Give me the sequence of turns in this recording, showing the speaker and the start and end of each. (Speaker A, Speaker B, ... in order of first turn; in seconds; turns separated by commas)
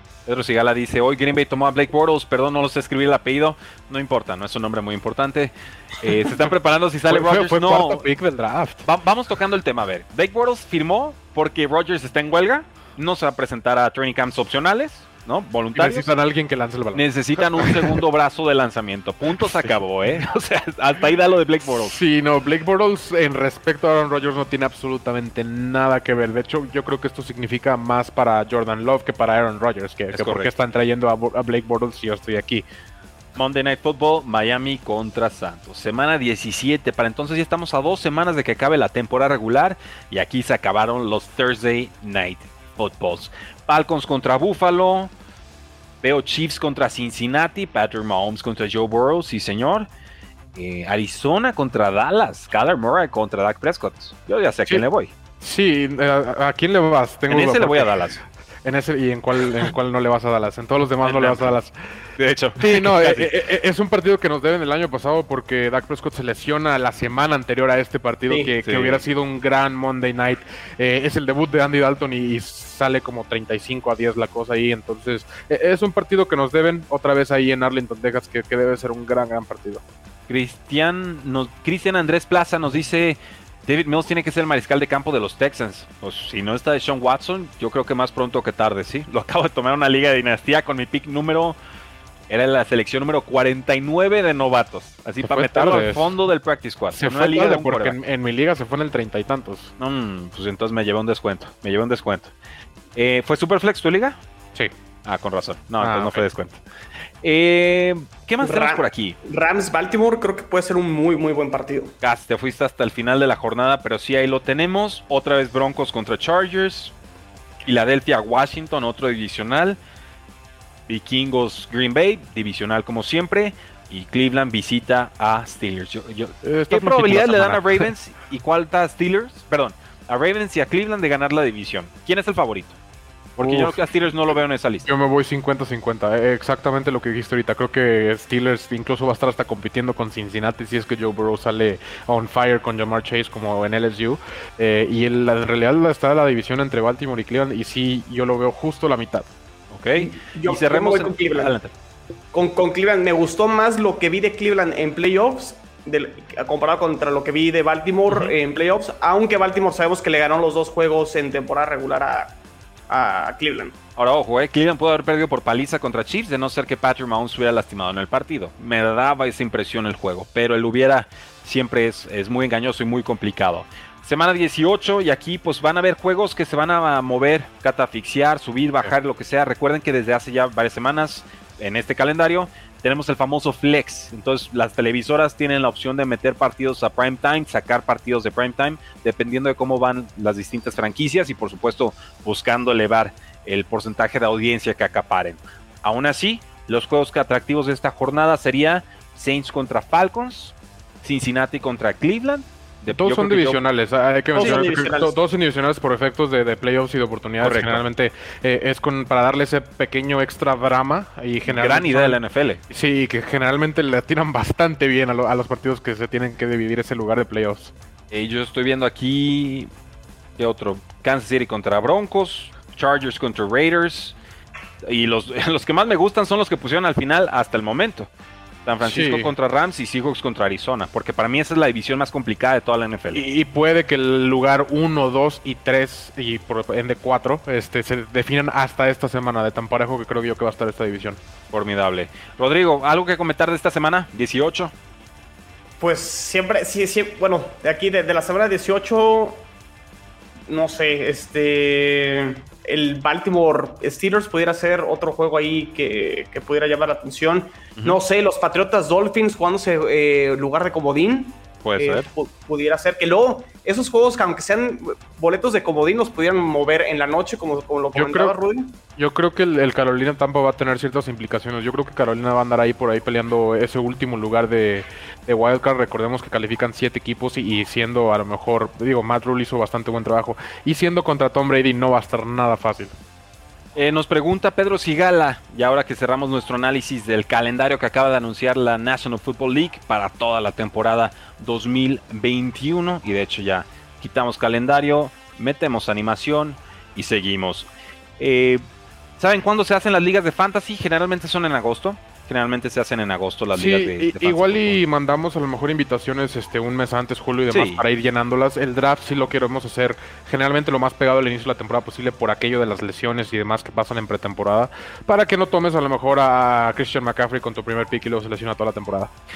Speaker A: 0.3-8.1, Speaker B: 7.1-8.9, Speaker A: 8.8-16.1, Speaker B: 15.7-18.0, Speaker A: 16.9-21.9, Speaker B: 21.6-32.6, Speaker A: 30.1-30.5, Speaker A: 33.4-45.1, Speaker A: 46.0-49.9, Speaker A: 50.5-55.1, Speaker B: 55.4-61.7, Speaker A: 57.3-58.2, Speaker A: 61.0-61.6, Speaker A: 62.2-63.3, Speaker B: 62.6-79.8, Speaker A: 68.6-69.0, Speaker A: 80.3-91.6, Speaker A: 92.3-98.0, Speaker B: 95.2-96.2, Speaker B: 96.9-99.7, Speaker A: 99.8-102.3, Speaker A: 103.0-104.2, Speaker A: 105.0-106.6, Speaker B: 105.8-106.3, Speaker A: 107.2-109.2, Speaker C: 108.4-111.9, Speaker A: 112.0-116.9, Speaker A: 117.6-119.8, Speaker A: 120.9-132.8, Speaker B: 126.4-127.9, Speaker A: 133.4-134.9, Speaker B: 133.4-133.8, Speaker B: 134.8-149.3, Speaker A: 149.7-151.7, Speaker C: 150.0-151.6, Speaker C: 152.3-162.3, Speaker A: 158.1-158.3, Speaker C: 162.9-163.8, Speaker A: 164.0-203.6, Speaker B: 202.9-217.7, Speaker A: 204.3-204.7, Speaker C: 204.3-205.2, Speaker A: 207.4-207.8, Speaker A: 211.5-212.6, Speaker A: 218.1-219.7, Speaker A: 220.4-224.2, Speaker A: 224.8-228.1, Speaker A: 228.7-233.2, Speaker B: 228.8-229.3, Speaker B: 233.1-241.2, Speaker A: 241.5-244.7, Speaker C: 245.8-249.4, Speaker C: 250.5-268.7, Speaker A: 261.6-262.1, Speaker B: 267.9-268.4, Speaker B: 269.0-282.9, Speaker A: 283.8-297.7, Speaker A: 298.2-298.6, Speaker A: 299.2-304.8, Speaker B: 303.5-319.1, Speaker A: 307.5-307.8